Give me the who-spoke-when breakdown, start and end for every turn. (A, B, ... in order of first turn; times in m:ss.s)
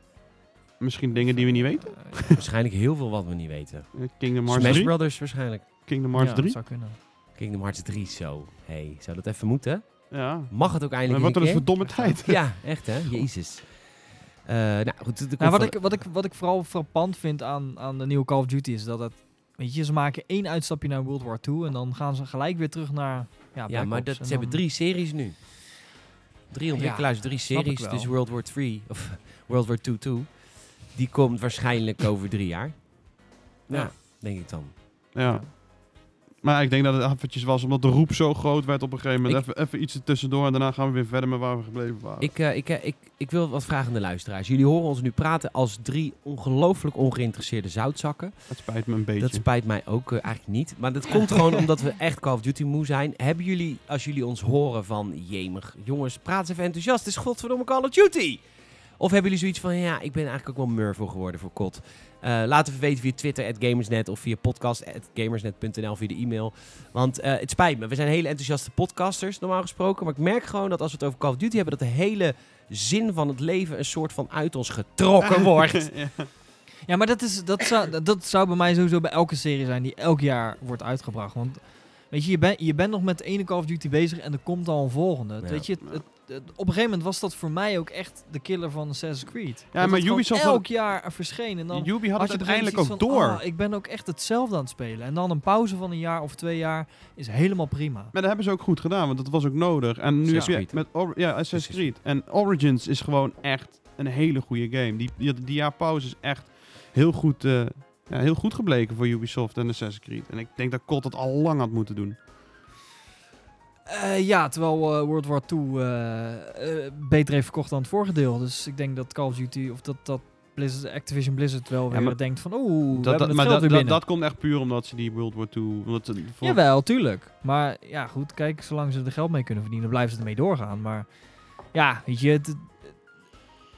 0:00.8-0:02.4 A
0:01.1-0:02.3 B
0:02.3-0:05.7 C
0:03.9-0:05.0 A
0:05.8-0:06.6 A
0:06.1-0:07.0 B
0:07.4-0:16.0 C
0:10.1-0:13.3 A
0:11.8-0:12.2 B
0:15.4-0:24.6 B
0:23.7-0:25.4 C
0:26.5-0:32.9 C
0:26.8-0:28.1 B
0:33.7-0:34.8 C
0:35.1-0:35.6 A
0:35.2-0:35.5 B
0:36.4-0:42.3 A
0:42.2-0:48.5 C
0:48.5-0:49.4 A
0:49.2-0:58.4 C
0:59.0-1:15.9 C
1:15.2-1:16.3 A
1:16.9-1:38.1 B
1:25.4-1:25.7 C
1:29.7-1:30.7 A
1:31.7-1:33.4 A
1:38.1-1:52.2 A
1:40.2-1:41.9 C
1:53.9-2:04.0 B
2:01.9-2:02.2 A
2:02.9-2:06.6 A
2:06.4-2:11.1 B
2:11.7-2:13.0 B